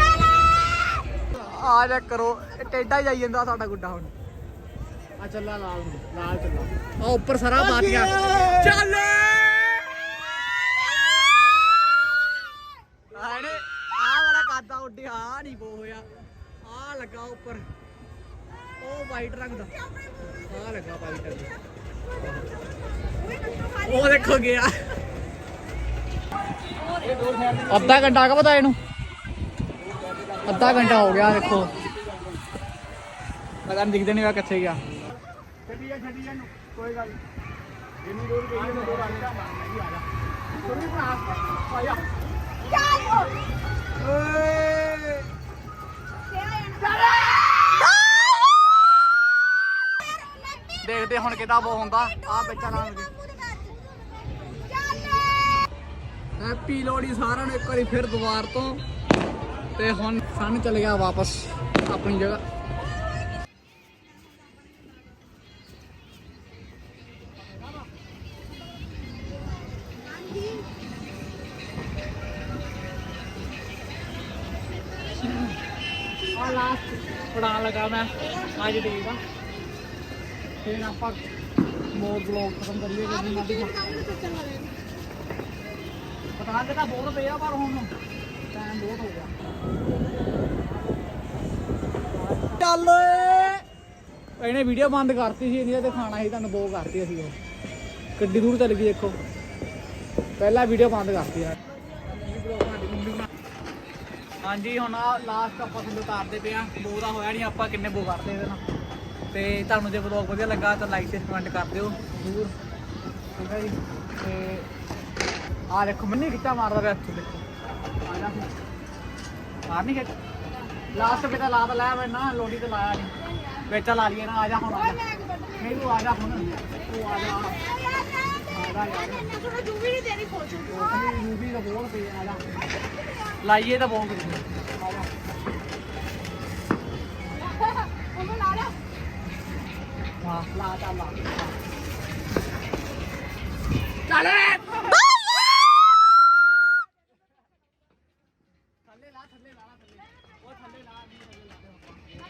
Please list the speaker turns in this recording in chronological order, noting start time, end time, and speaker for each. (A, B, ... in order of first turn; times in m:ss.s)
0:01.3-0:04.1 A
0:05.2-0:06.7 B
0:07.0-0:10.2 A
0:13.1-0:16.0 A
0:16.6-0:17.6 A
0:18.8-0:19.7 A
0:20.3-0:21.5 A
0:23.7-0:24.9 A
0:27.4-0:28.8 A
0:30.4-0:31.8 A
0:33.6-0:34.8 A
0:35.7-0:37.2 B
0:38.0-0:40.0 B
0:38.9-0:39.2 A
0:40.6-0:41.4 A
0:44.0-0:45.2 A
0:46.4-0:47.0 C
0:50.8-0:53.1 A
0:56.4-0:58.8 A
0:59.8-1:02.4 A
1:15.2-1:15.5 A
1:16.3-1:19.2 A
1:20.6-1:21.2 A
1:21.9-1:24.0 A
1:23.8-1:24.7 C
1:26.4-1:27.9 A
1:28.5-1:29.3 A
1:32.2-1:33.6 A
1:34.4-1:37.3 A
1:38.2-1:39.2 A
1:40.4-1:43.3 A
1:44.4-1:48.6 A
1:49.3-1:52.5 A
1:53.3-1:54.7 A
1:55.7-1:57.4 A
1:58.0-1:58.5 A
1:59.7-2:00.1 A
2:00.9-2:03.1 A
2:03.6-2:07.6 A
2:08.5-2:09.4 A
2:09.4-2:10.6 C
2:10.6-2:12.4 A
2:13.4-2:15.1 A
2:17.6-2:18.8 C
2:20.2-2:21.5 A
2:24.2-2:24.8 A
2:28.9-2:29.9 A